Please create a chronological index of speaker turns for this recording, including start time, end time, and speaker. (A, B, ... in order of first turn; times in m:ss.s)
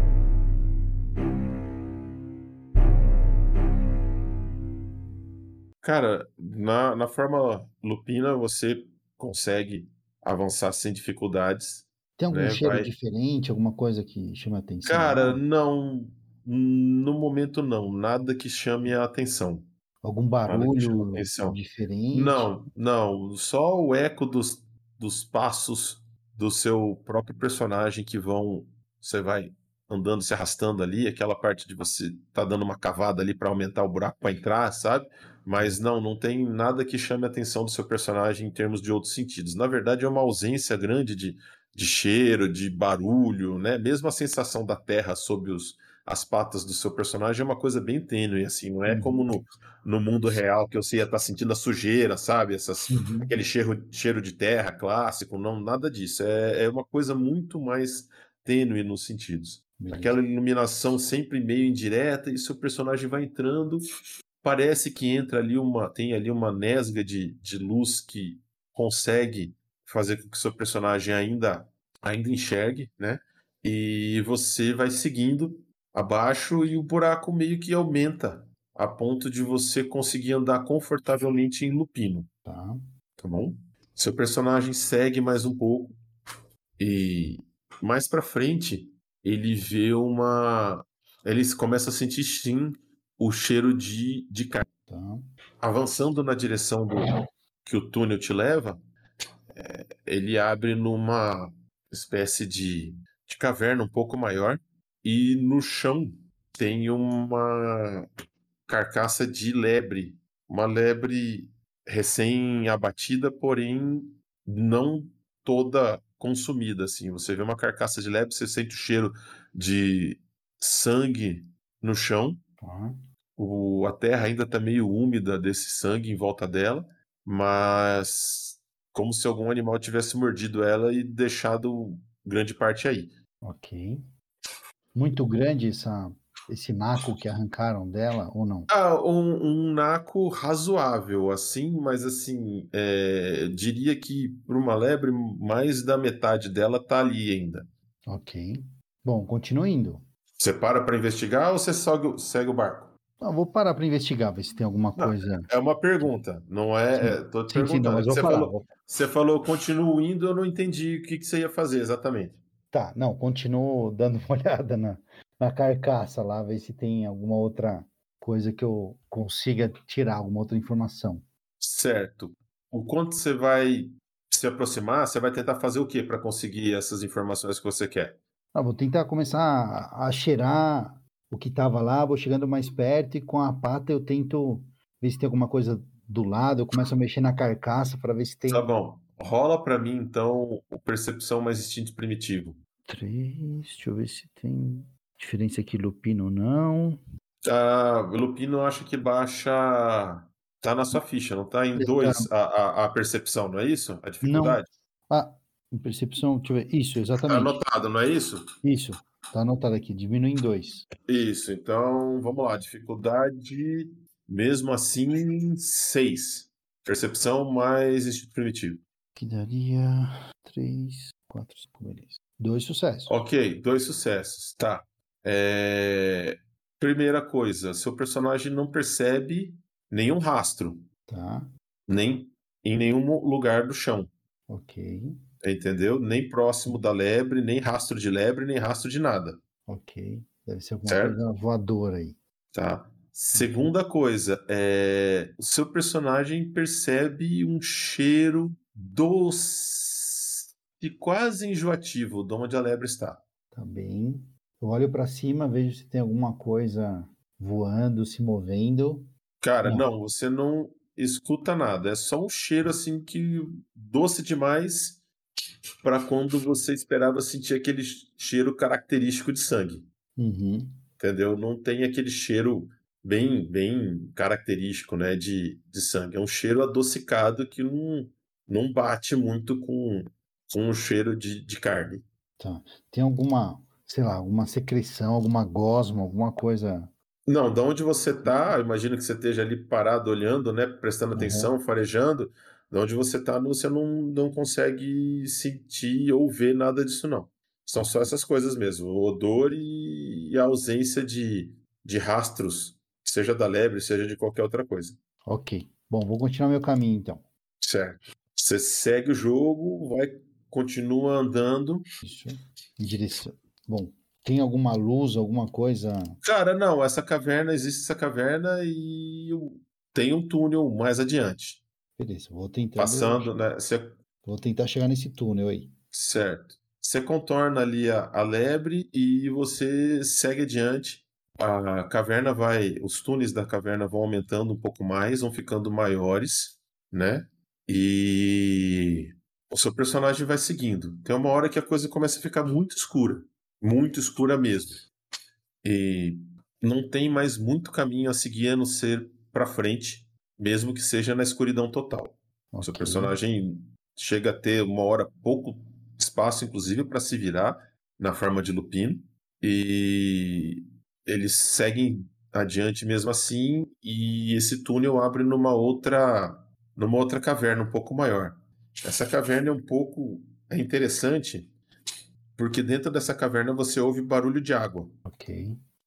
0:05.8-0:12.9 A
0:12.2-0:15.4 B
0:14.8-0:19.7 A
0:20.0-0:22.6 B
0:20.5-0:21.6 A
0:22.1-1:03.8 A
0:48.9-0:49.3 B
0:52.9-0:53.4 B
0:59.8-1:00.2 B
1:04.4-1:22.3 A
1:22.5-1:22.8 B
1:23.2-1:26.0 A
1:26.8-1:34.7 A
1:34.9-1:35.2 B
1:35.6-1:37.1 A
1:37.6-1:38.8 A
1:39.5-1:48.1 A
1:48.7-2:02.4 A
2:02.6-2:03.0 B
2:03.4-2:13.1 A
2:13.4-2:14.0 B
2:15.0-2:18.7 B
2:18.7-2:27.7 A
2:28.1-2:30.0 B
2:30.4-2:32.9 A
2:33.2-2:35.5 B
2:35.0-2:42.4 A
2:37.0-2:38.7 B
2:42.7-2:51.2 B
2:51.6-2:58.2 A
2:58.5-3:08.7 B
3:08.5-3:12.6 A
3:12.9-3:17.0 B
3:17.4-3:24.7 A
3:21.8-3:22.3 B
3:24.2-3:27.6 B
3:27.3-3:28.5 A
3:28.6-3:30.9 B
3:31.1-3:38.8 A
3:39.2-3:43.2 B
3:43.1-3:50.8 A
3:51.1-3:51.5 B
3:51.9-3:54.1 A
3:54.5-3:55.2 B
3:55.4-3:59.4 A
3:59.7-4:02.2 B
4:00.9-4:01.2 A
4:02.5-4:13.2 A
4:03.3-4:03.7 B
4:13.5-4:19.1 B
4:19.4-4:25.0 A
4:25.8-4:29.9 A
4:30.2-4:30.8 B
4:31.0-4:42.0 A
4:42.4-4:46.9 B
4:47.3-5:05.0 A
4:48.2-4:48.5 B
4:51.2-4:51.5 B
4:57.8-4:58.1 B
5:05.3-5:07.3 B
5:07.6-5:11.9 A
5:12.0-5:16.2 B
5:16.2-5:21.6 A
5:22.0-5:23.3 B
5:22.8-5:23.9 A
5:24.2-5:25.7 B
5:25.9-5:44.9 A
5:45.6-6:11.5 A
5:52.5-5:53.2 B
6:12.4-6:14.9 A
6:15.1-6:15.6 B